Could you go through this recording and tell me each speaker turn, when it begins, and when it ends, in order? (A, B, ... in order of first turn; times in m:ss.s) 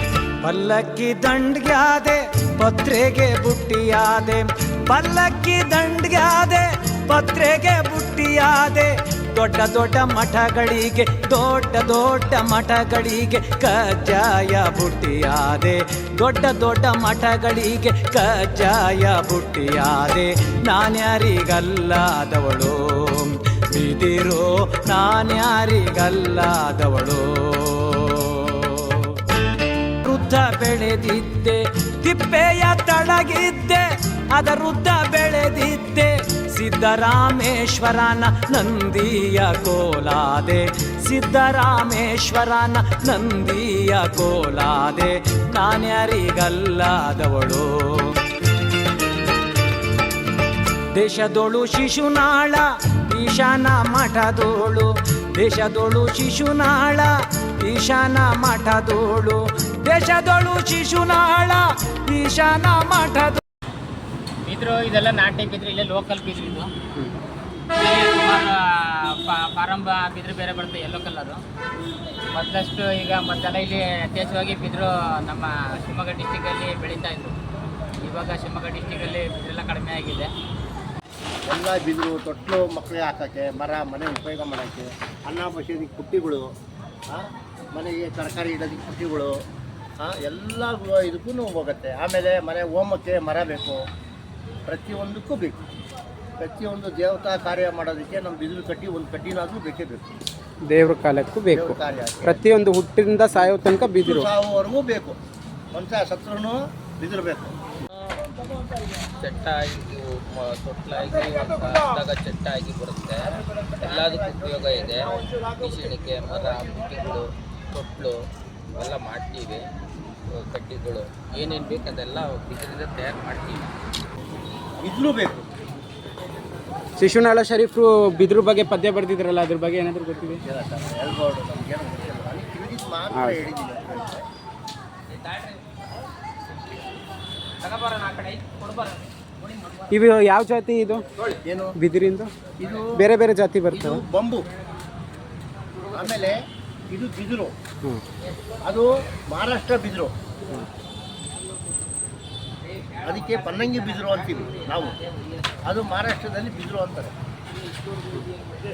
0:00.4-0:29.2 A
0:30.0-0:48.2 A
0:50.9-1:03.4 A
1:04.4-1:06.7 B
1:07.7-1:11.4 B
1:12.3-1:17.4 B
1:18.0-1:20.3 B
1:21.5-1:26.5 C
1:27.1-1:29.3 C
1:30.0-1:33.8 C
1:34.7-1:35.6 C
1:36.4-1:40.1 C
1:40.7-1:44.3 D
1:41.5-1:42.4 C
1:43.8-1:45.2 C
1:45.7-1:47.5 C
1:49.2-1:58.2 E
1:58.8-1:59.6 E
2:00.3-2:03.7 E
2:04.8-2:05.5 C
2:07.0-2:10.4 D
2:10.5-2:14.2 C
2:13.1-2:13.4 D
2:17.9-2:18.6 B
2:19.9-2:21.1 D
2:21.5-2:21.8 C
2:21.8-2:22.3 D
2:22.6-2:23.0 C
2:23.0-2:24.0 D
2:23.7-2:24.5 C
2:25.9-2:26.4 C
2:26.9-2:27.5 C
2:28.6-2:30.1 C
2:33.0-2:35.0 C
2:35.6-2:37.1 C